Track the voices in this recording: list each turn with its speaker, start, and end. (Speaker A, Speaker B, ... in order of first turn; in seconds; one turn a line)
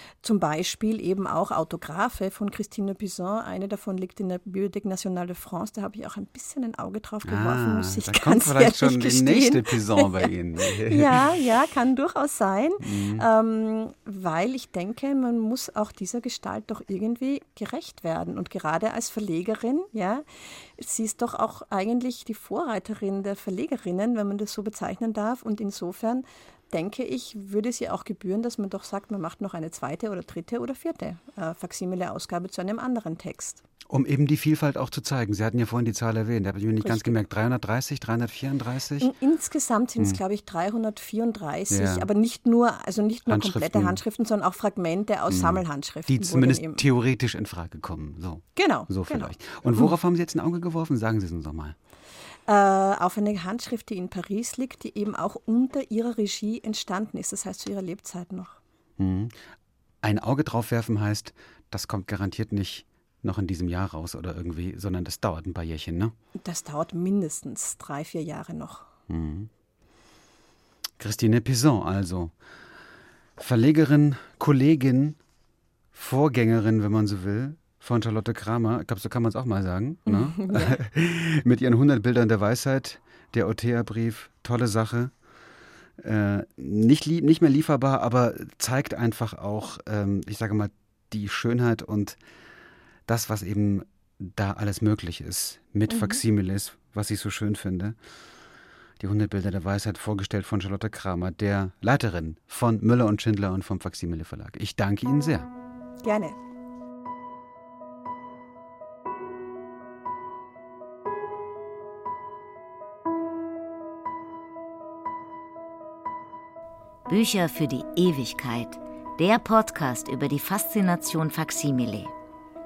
Speaker A: 0.2-33.6
Speaker B: 7.2-11.3
Speaker B: 12.8-13.2
Speaker B: 33.9-39.1
Speaker A: 36.8-37.2
Speaker A: 39.0-46.8
Speaker B: 41.7-42.1
Speaker B: 43.3-44.0
Speaker B: 45.3-51.8
Speaker A: 48.5-49.9
Speaker A: 52.5-58.6
Speaker B: 59.0-59.4
Speaker B: 60.0-66.1
Speaker A: 66.4-68.9
Speaker B: 69.1-69.5
Speaker B: 71.0-72.3
Speaker B: 73.4-75.2
Speaker B: 75.9-85.1
Speaker A: 80.1-80.8
Speaker B: 86.0-92.2
Speaker B: 93.1-98.0
Speaker A: 95.9-96.2
Speaker B: 99.0-105.5
Speaker A: 106.0-106.3
Speaker C: 117.1-122.1